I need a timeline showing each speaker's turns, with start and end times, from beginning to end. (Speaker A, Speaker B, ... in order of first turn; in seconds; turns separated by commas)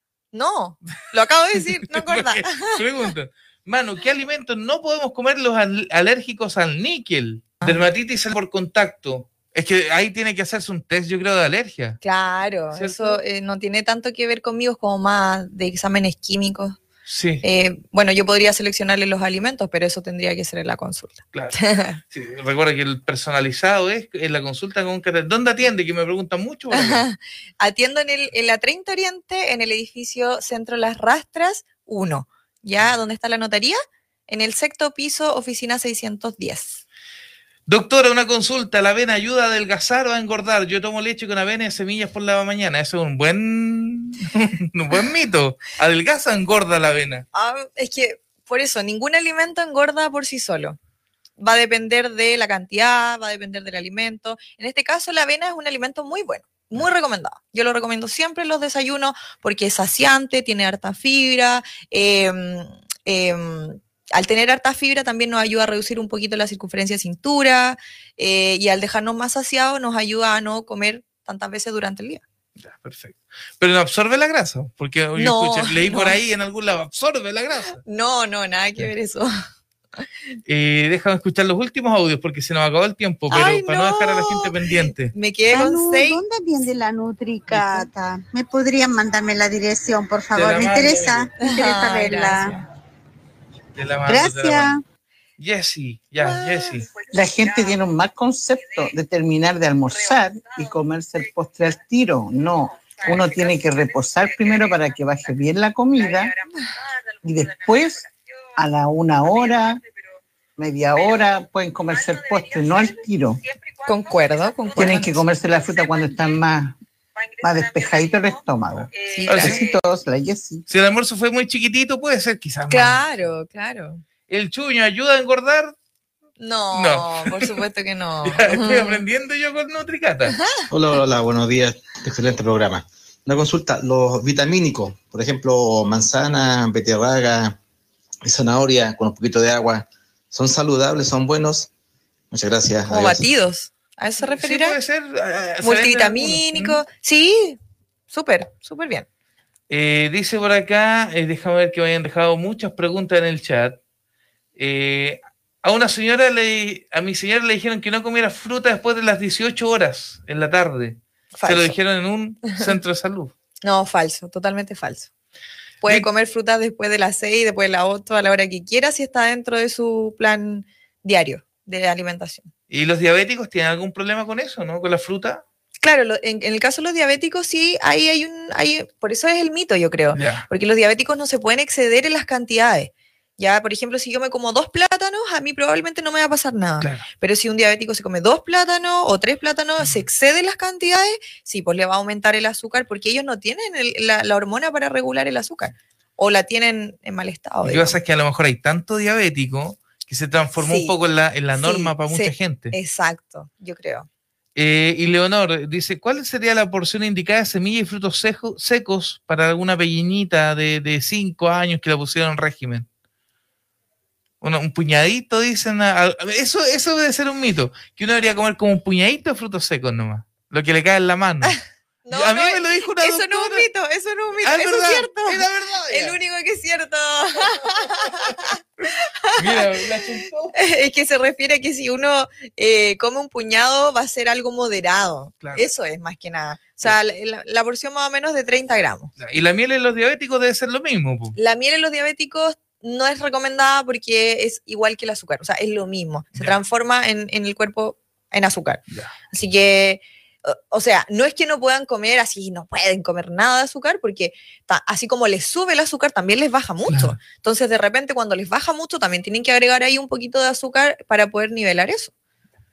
Speaker A: 0.3-2.8, Speaker B: 1.6-12.0, Speaker A: 12.0-16.8, Speaker B: 12.7-13.2, Speaker B: 17.1-17.4, Speaker A: 17.4-22.0, Speaker B: 21.3-27.0, Speaker A: 26.7-36.8, Speaker B: 37.7-47.2, Speaker A: 47.3-50.8, Speaker A: 51.4-72.2, Speaker B: 72.6-77.8, Speaker A: 75.1-76.2, Speaker A: 77.8-79.3, Speaker B: 80.5-85.1, Speaker A: 83.3-86.2, Speaker C: 85.5-92.6, Speaker B: 87.5-87.8, Speaker B: 90.3-91.3, Speaker A: 91.4-92.6, Speaker B: 93.8-94.7, Speaker C: 94.1-94.8, Speaker B: 95.4-96.9, Speaker D: 97.1-106.3, Speaker D: 107.2-109.8, Speaker D: 110.6-113.4, Speaker A: 113.8-115.2, Speaker D: 114.7-116.8, Speaker D: 117.4-120.6, Speaker A: 119.1-119.6, Speaker B: 119.3-119.6, Speaker B: 120.7-123.0, Speaker A: 122.7-124.0, Speaker B: 124.3-125.7, Speaker A: 126.4-129.0, Speaker B: 126.7-127.6, Speaker B: 128.2-130.3, Speaker A: 130.3-130.6, Speaker E: 130.7-137.6, Speaker E: 138.2-141.7, Speaker E: 142.3-143.2, Speaker A: 142.9-144.8, Speaker B: 144.4-146.8, Speaker A: 145.6-147.6, Speaker A: 148.1-149.1, Speaker B: 149.7-153.8, Speaker B: 154.6-163.3, Speaker A: 161.3-161.7, Speaker A: 163.6-165.1, Speaker A: 165.8-172.5, Speaker B: 172.7-175.4, Speaker A: 175.8-198.0, Speaker B: 180.1-180.4, Speaker B: 186.8-187.1, Speaker B: 197.6-202.7, Speaker A: 200.6-200.9, Speaker A: 201.5-204.1, Speaker B: 204.6-212.9, Speaker B: 214.4-221.6, Speaker A: 221.4-230.0, Speaker B: 222.1-223.7, Speaker B: 224.4-226.2, Speaker B: 229.3-230.5, Speaker A: 230.5-239.2, Speaker B: 239.2-241.3, Speaker A: 241.3-262.1, Speaker B: 256.9-257.2